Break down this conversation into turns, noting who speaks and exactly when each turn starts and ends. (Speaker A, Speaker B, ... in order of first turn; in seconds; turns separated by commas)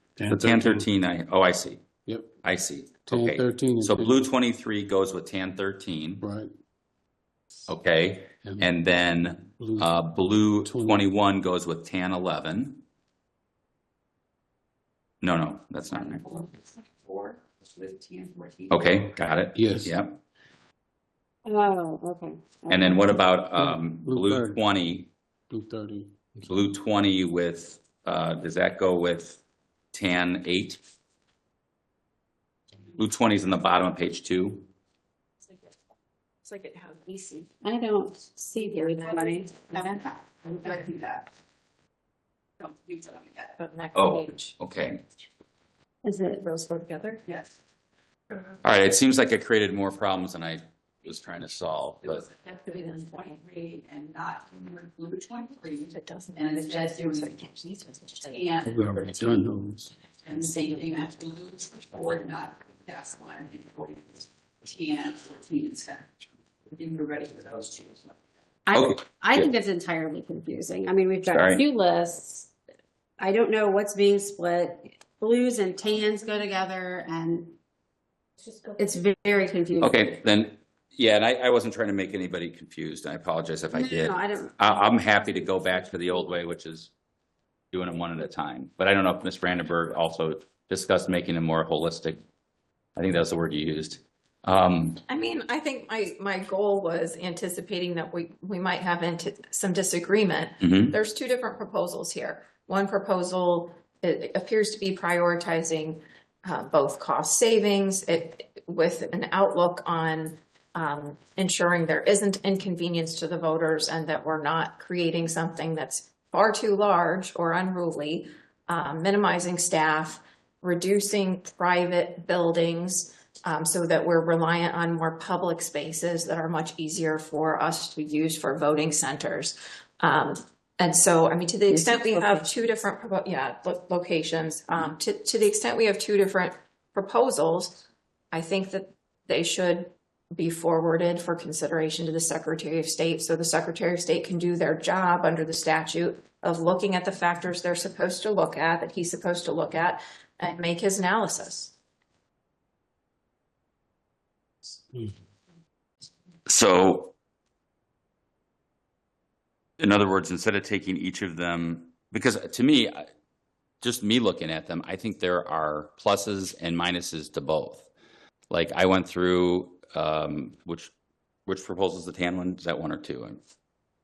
Speaker A: 0.2-0.9, Speaker B: 0.3-1.8, Speaker A: 2.1-2.4, Speaker B: 2.4-6.2, Speaker A: 3.1-4.2, Speaker A: 6.2-6.5, Speaker B: 7.7-12.8, Speaker A: 9.6-9.9, Speaker A: 10.7-11.1, Speaker B: 15.2-16.2, Speaker C: 15.9-19.0, Speaker B: 18.7-20.2, Speaker A: 19.6-19.9, Speaker D: 21.4-23.2, Speaker B: 22.7-25.1, Speaker A: 23.6-24.6, Speaker A: 25.5-26.5, Speaker B: 26.4-29.4, Speaker B: 29.9-30.8, Speaker B: 33.0-34.7, Speaker E: 36.4-37.5, Speaker D: 37.6-39.9, Speaker E: 38.6-39.4, Speaker C: 39.5-41.3, Speaker C: 42.6-43.6, Speaker E: 43.6-44.5, Speaker B: 43.9-45.0, Speaker D: 46.0-46.5, Speaker E: 46.4-47.2, Speaker B: 48.6-52.3, Speaker C: 52.0-57.4, Speaker E: 55.9-58.4, Speaker C: 58.2-58.8, Speaker A: 58.7-59.9, Speaker C: 60.2-66.2, Speaker C: 66.7-68.1, Speaker D: 68.7-72.5, Speaker B: 68.7-69.5, Speaker B: 71.3-71.6, Speaker D: 73.2-77.6, Speaker D: 78.8-80.0, Speaker B: 79.8-86.9, Speaker D: 83.7-85.1, Speaker B: 87.7-92.2, Speaker B: 93.0-95.0, Speaker E: 95.1-151.7, Speaker B: 100.6-101.0, Speaker D: 131.7-132.5, Speaker B: 156.5-157.2, Speaker B: 159.8-163.1, Speaker B: 163.8-167.9, Speaker B: 168.5-170.9, Speaker B: 171.5-173.4